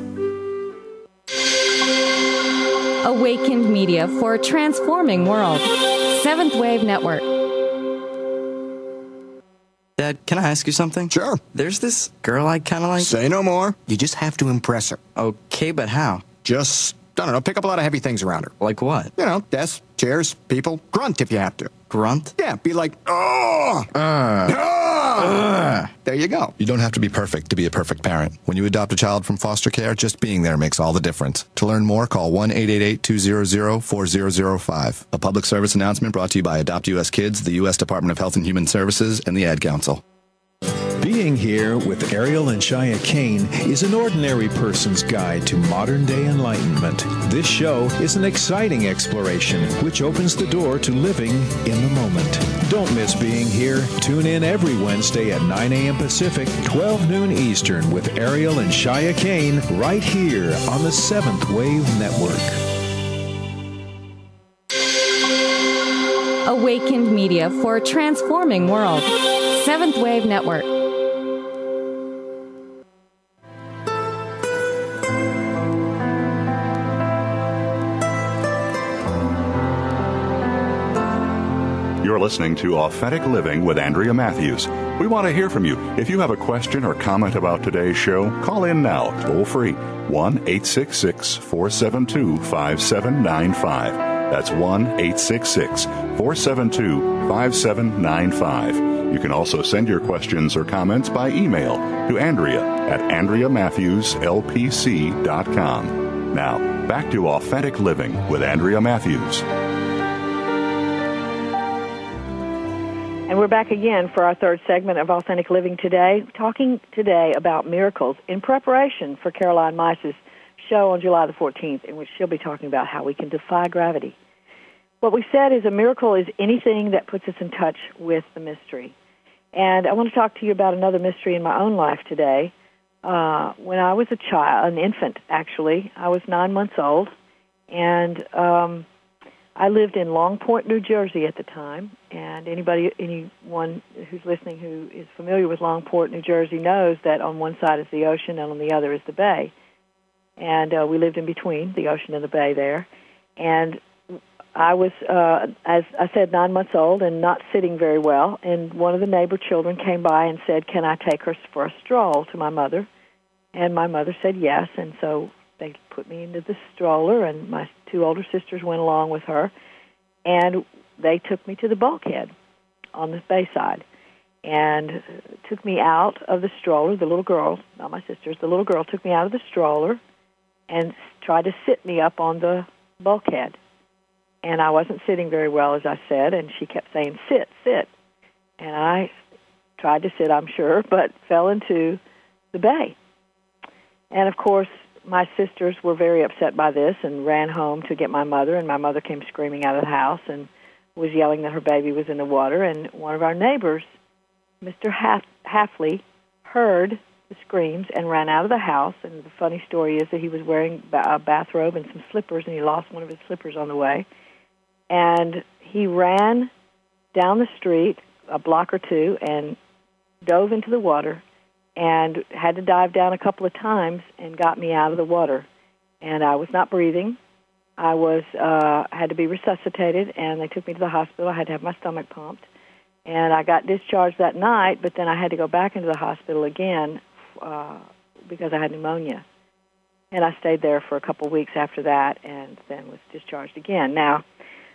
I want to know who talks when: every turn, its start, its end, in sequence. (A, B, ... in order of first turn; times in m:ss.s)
0:03.0-0:07.2 A
0:10.0-0:13.0 B
0:11.1-0:11.4 C
0:12.9-0:13.7 C
0:13.8-0:15.0 D
0:15.2-0:16.2 B
0:17.4-0:18.4 D
0:18.6-0:19.1 B
0:19.6-0:20.2 D
0:20.9-0:21.4 D
0:21.9-0:22.3 B
0:22.4-0:40.0 C
0:41.0-1:02.6 E
1:06.4-1:10.7 A
1:22.0-1:49.5 F
1:53.3-2:04.2 G
2:05.0-2:08.9 G
2:09.5-2:12.5 G
2:13.0-2:17.1 G
2:17.7-2:18.8 G
2:19.6-2:29.5 G
2:30.4-2:42.9 G
2:43.5-2:49.5 G
2:50.2-2:52.3 G
2:52.9-2:53.8 G
2:54.4-3:00.0 G
3:00.7-3:03.6 G
3:04.4-3:07.9 G
3:08.6-3:09.1 G
3:09.8-3:12.0 G
3:12.5-3:13.0 G
3:14.1-3:23.9 G
3:24.6-3:34.0 G
3:34.9-3:36.5 G
3:37.1-3:39.6 G
3:40.2-3:41.2 G
3:41.8-3:45.5 G
3:46.0-3:47.2 G
3:47.8-3:52.4 G
3:53.0-3:59.2 G
4:00.1-4:04.2 G